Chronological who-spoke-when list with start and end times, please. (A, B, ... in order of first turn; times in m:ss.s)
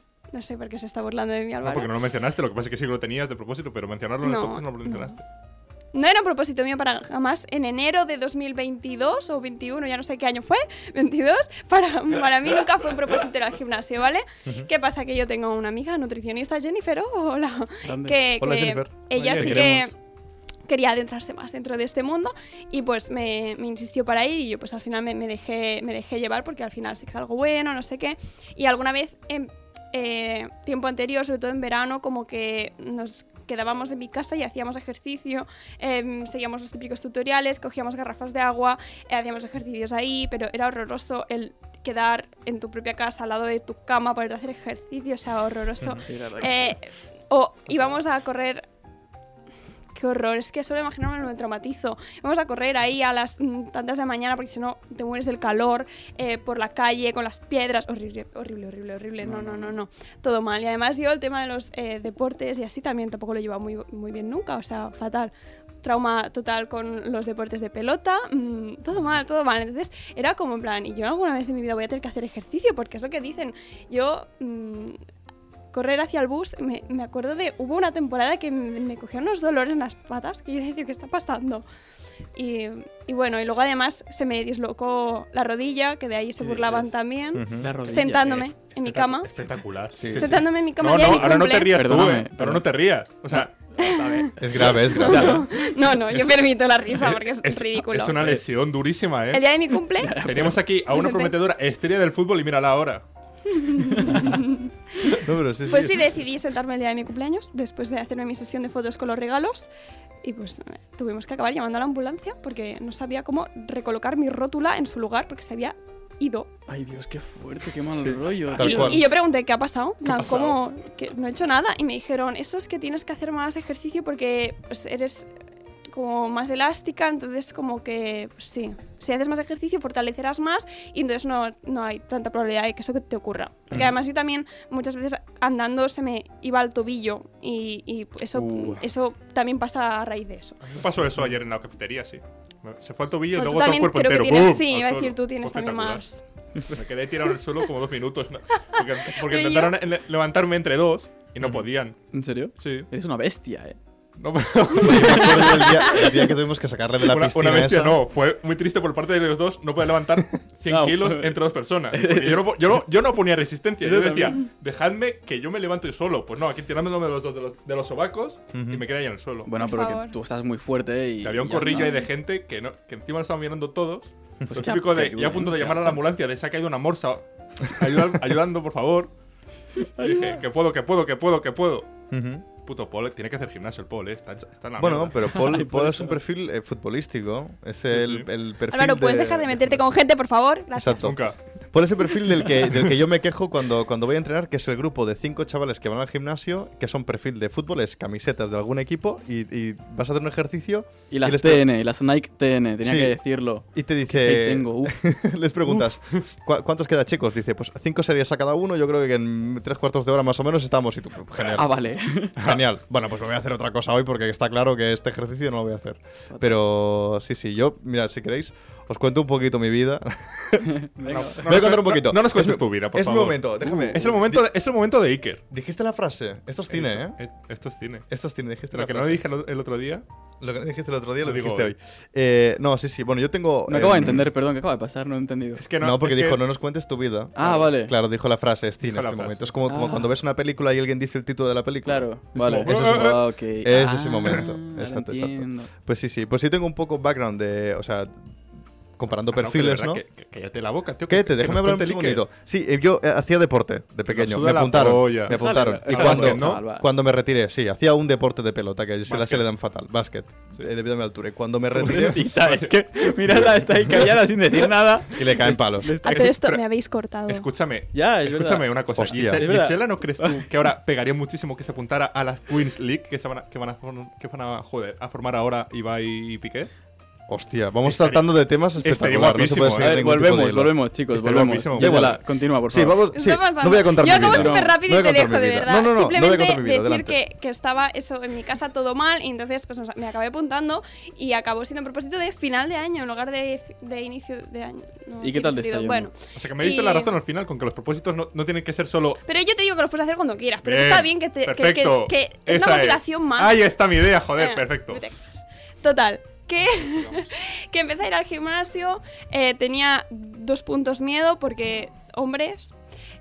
0:00.3-0:01.9 A
0:01.6-0:05.2 B
0:04.2-0:05.2 A
0:05.9-0:19.9 A
0:17.8-0:18.2 C
0:18.4-0:19.8 D
0:19.2-0:19.8 C
0:19.4-0:19.7 B
0:20.7-0:48.6 A
0:45.9-0:46.8 C
0:50.0-1:15.0 A
0:59.2-0:59.8 C
1:15.7-1:21.6 A
1:22.4-1:29.3 A
1:26.4-1:27.0 C
1:27.3-1:27.7 D
1:27.5-1:28.5 C
1:28.8-1:33.6 B
1:30.0-1:30.4 D
1:30.1-1:31.7 A
1:31.0-1:32.7 C
1:33.3-1:35.5 C
1:33.8-1:38.2 A
1:34.4-1:35.4 D
1:35.0-1:35.4 B
1:37.0-1:39.5 B
1:39.3-1:40.2 A
1:40.0-1:40.6 C
1:40.2-1:43.0 B
1:40.9-1:41.4 A
1:43.5-1:45.1 A
1:43.8-1:44.4 C
1:45.2-1:46.1 D
1:45.7-1:49.7 A
1:50.2-1:56.5 A
1:56.7-1:59.0 C
1:58.0-1:59.0 D
1:58.6-2:05.3 A
2:00.0-2:00.6 B
2:05.9-2:20.6 A
2:18.3-2:18.8 C
2:20.6-2:26.0 B
2:23.3-2:26.2 A
2:26.7-2:32.0 B
2:29.2-2:29.8 A
2:32.1-2:33.8 C
2:32.6-2:32.9 B
2:34.2-2:36.0 B
2:34.8-2:38.0 D
2:34.9-2:36.1 A
2:37.0-2:49.5 B
2:40.7-2:42.5 C
2:43.8-2:44.4 C
2:48.5-2:48.8 D
2:49.5-2:52.0 C
2:49.6-2:50.2 A
2:51.2-2:59.1 B
2:51.7-2:52.0 A
2:54.5-2:56.0 C
3:00.0-3:00.3 C
3:00.0-3:01.9 B
3:02.1-3:02.4 D
3:02.7-3:05.3 B
3:04.8-3:09.8 D
3:05.2-3:06.2 C
3:07.9-3:08.3 B
3:08.7-3:11.2 A
3:10.8-3:11.2 D
3:11.0-3:11.4 B
3:11.7-3:21.7 D
3:21.1-3:25.0 C
3:22.8-3:23.2 D
3:23.7-3:31.7 D
3:31.4-3:31.6 B
3:31.6-3:32.4 C
3:32.4-3:44.4 D
3:36.3-3:36.6 C
3:40.6-3:41.4 C
3:41.1-3:45.4 B
3:45.5-3:47.2 D
3:46.7-3:48.1 B
3:48.1-3:49.2 D
3:48.7-3:50.0 B
3:50.4-3:54.3 D
3:51.2-3:51.7 B
3:53.7-3:55.6 C
3:55.6-3:56.4 B
3:55.8-4:02.1 D
3:57.4-3:57.9 C
3:58.8-3:59.6 B
3:59.7-4:00.1 C
4:01.8-4:05.7 C
4:02.4-4:03.2 B
4:02.6-4:08.2 D
4:09.0-4:10.0 D
4:09.3-4:12.2 B
4:11.1-4:22.3 D
4:14.1-4:16.6 B
4:15.3-4:16.9 C
4:19.1-4:19.5 B
4:21.7-4:26.3 C
4:22.3-4:22.8 B
4:25.1-4:26.0 D
4:26.0-4:27.5 A
4:26.1-4:26.6 B
4:27.3-4:36.7 B
4:27.9-4:30.4 C
4:29.0-4:29.5 D
4:37.3-4:40.8 D
4:37.8-4:40.2 B
4:39.8-4:43.0 C
4:41.1-4:42.2 B
4:41.7-4:47.2 D
4:43.1-4:57.2 A
4:44.0-4:44.8 C
4:55.2-4:56.1 C
4:56.3-4:59.2 B
4:59.2-5:03.6 A
5:00.6-5:05.0 B
5:04.4-5:05.2 A
5:05.8-5:12.7 A